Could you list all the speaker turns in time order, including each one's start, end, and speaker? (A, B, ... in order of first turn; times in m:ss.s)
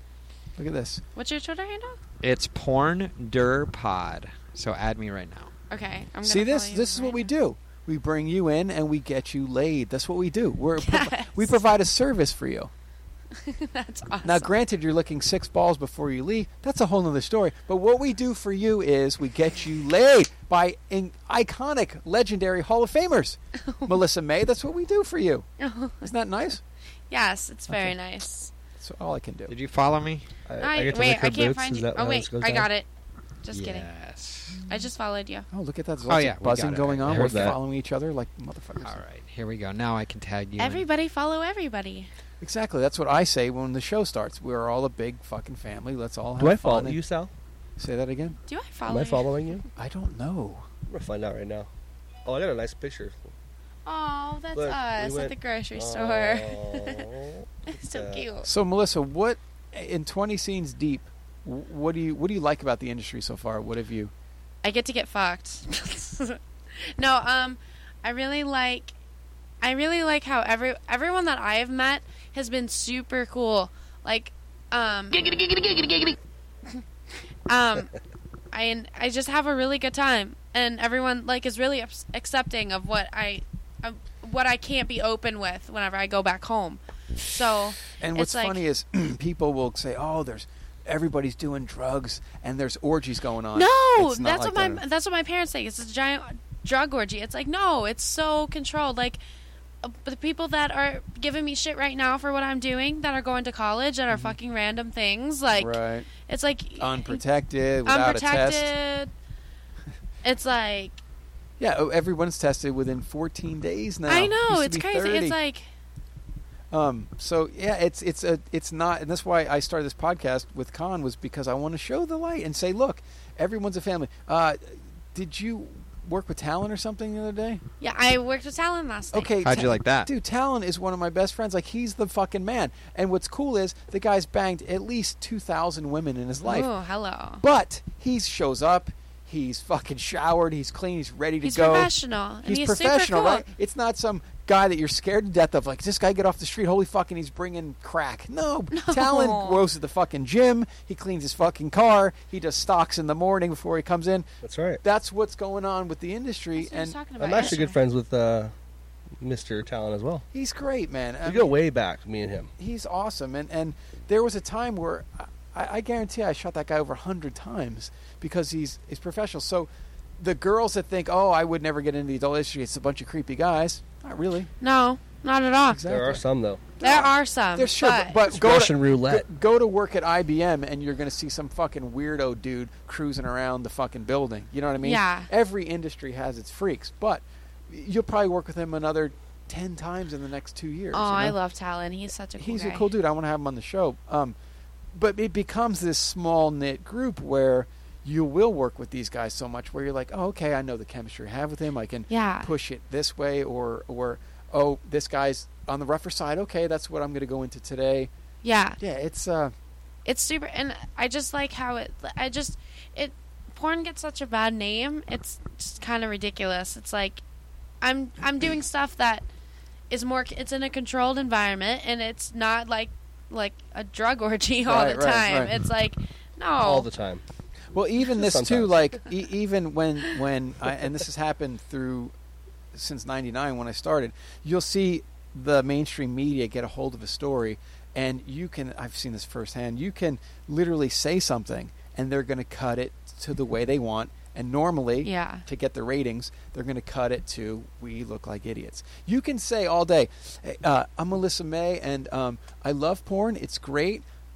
0:00.6-0:01.0 A
0:01.2-0:02.0 B
0:02.2-0:05.5 C
0:05.7-0:07.3 B
0:06.2-0:12.7 A
0:10.8-0:11.6 B
0:13.4-0:14.5 B
0:14.2-0:25.5 A
0:25.6-0:26.1 B
0:26.0-0:26.6 A
0:27.1-0:28.5 B
0:27.7-0:28.0 A
0:28.8-0:29.5 A
0:29.5-0:30.3 C
0:30.5-0:32.7 D
0:30.6-0:32.9 B
0:33.4-0:33.9 B
0:33.5-0:34.6 C
0:34.7-0:35.5 B
0:35.5-0:39.0 A
0:36.1-0:37.4 C
0:37.0-0:37.6 D
0:38.8-0:40.9 C
0:40.6-0:42.1 B
0:42.4-0:47.0 A
0:46.4-0:47.3 D
0:47.8-0:48.4 A
0:48.5-0:49.3 B
0:48.9-0:49.7 D
0:49.8-0:50.7 A
0:50.9-0:51.7 D
0:52.2-0:53.3 D
0:53.9-0:57.1 B
0:54.6-0:58.3 D
0:57.7-0:58.5 B
0:58.4-1:04.1 A
1:04.6-1:08.9 B
1:09.6-1:15.5 B
1:17.5-1:17.9 B
1:18.5-1:28.6 B
1:28.0-1:34.8 A
1:33.6-1:39.2 B
1:39.8-1:47.2 B
1:44.1-1:44.4 A
1:45.5-1:46.1 A
1:46.8-1:48.7 A
1:47.8-1:49.1 B
1:50.2-1:51.0 B
1:51.6-1:55.4 A
1:54.1-1:55.7 B
1:56.7-2:07.6 A
2:07.8-2:09.3 B
2:09.1-2:16.7 A
2:09.4-2:10.1 C
2:16.4-2:17.4 B
2:17.4-2:21.9 A
2:21.4-2:23.4 B
2:22.4-2:34.3 A
2:28.7-2:29.6 B
2:34.4-2:34.8 D
2:34.8-2:37.6 A
2:36.6-2:37.8 B
2:37.2-2:38.5 D
2:39.2-2:40.2 D
2:40.3-2:41.5 A
2:41.2-2:42.5 D
2:42.6-2:54.5 A
2:54.6-2:55.8 B
2:55.7-2:56.3 A
2:55.9-2:56.6 D
2:56.8-3:11.4 A
2:56.8-2:58.2 B
2:58.2-2:59.3 D
3:04.8-3:05.3 B
3:10.9-3:12.9 B
3:12.4-3:14.4 A
3:14.9-3:28.1 A
3:22.1-3:22.5 B
3:28.4-3:28.8 B
3:28.8-3:29.5 A
3:30.1-3:37.2 B
3:37.8-3:39.3 B
3:39.9-3:46.9 B
3:44.7-3:45.6 A
3:46.6-3:47.2 D
3:47.7-3:52.1 A
3:48.1-3:48.7 D
3:52.7-4:14.0 A
4:05.0-4:05.4 B